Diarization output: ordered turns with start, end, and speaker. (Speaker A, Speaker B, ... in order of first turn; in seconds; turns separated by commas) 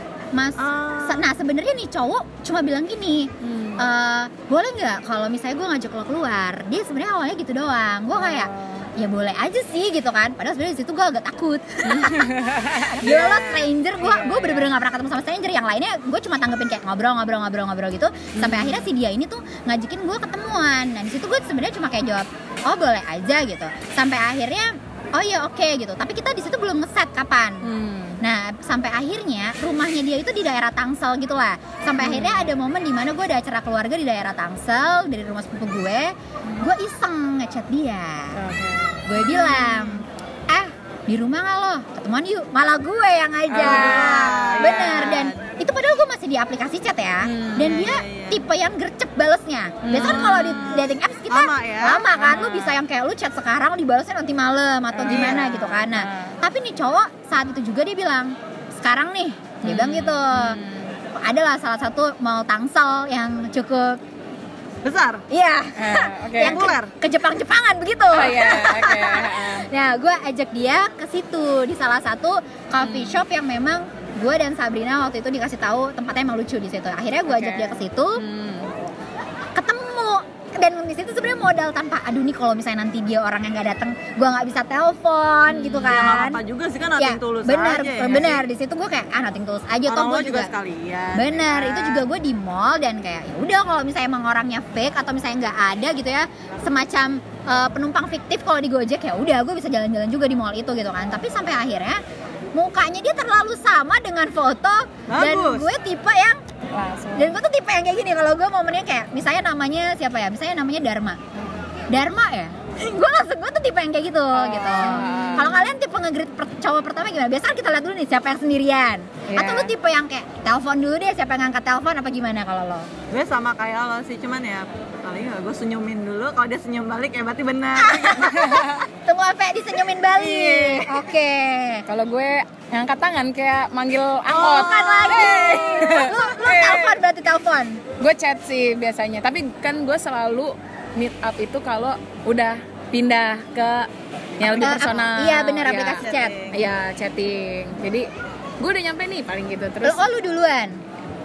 Speaker A: 0.3-27.7, Speaker B: 0.6-1.3, Speaker C: 3.4-3.9, Speaker C: 8.1-8.9, Speaker C: 11.8-14.7, Speaker C: 18.4-18.9, Speaker C: 27.6-28.2, Speaker A: 28.2-38.4, Speaker C: 32.0-32.5, Speaker C: 38.3-39.9, Speaker A: 39.0-60.6, Speaker C: 43.5-45.1, Speaker B: 43.6-45.5, Speaker C: 47.2-47.8, Speaker B: 47.6-48.4, Speaker C: 49.8-50.8, Speaker B: 49.9-52.0, Speaker C: 52.1-52.8, Speaker C: 54.9-56.4, Speaker B: 55.1-55.5, Speaker C: 59.6-61.0, Speaker A: 61.1-64.0, Speaker B: 64.8-65.2, Speaker A: 65.3-78.2, Speaker C: 65.8-66.6, Speaker B: 66.4-66.9, Speaker C: 68.1-69.7, Speaker C: 72.8-73.2, Speaker C: 77.3-78.7, Speaker A: 79.5-86.4, Speaker C: 85.5-86.2, Speaker B: 85.8-88.4, Speaker A: 87.0-90.5, Speaker B: 89.9-92.1, Speaker A: 91.1-102.0, Speaker A: 102.5-106.4, Speaker B: 105.1-105.7, Speaker C: 106.7-107.4, Speaker A: 107.2-111.2, Speaker A: 111.9-122.9, Speaker C: 114.3-115.7, Speaker C: 119.3-119.7, Speaker B: 123.1-128.6, Speaker A: 127.8-131.8, Speaker C: 128.2-128.8, Speaker B: 130.1-131.0, Speaker C: 131.9-137.0, Speaker B: 134.3-136.0, Speaker A: 134.3-137.8, Speaker C: 138.0-148.1, Speaker A: 144.5-146.4, Speaker B: 145.7-146.6, Speaker C: 148.6-150.0, Speaker A: 149.8-150.8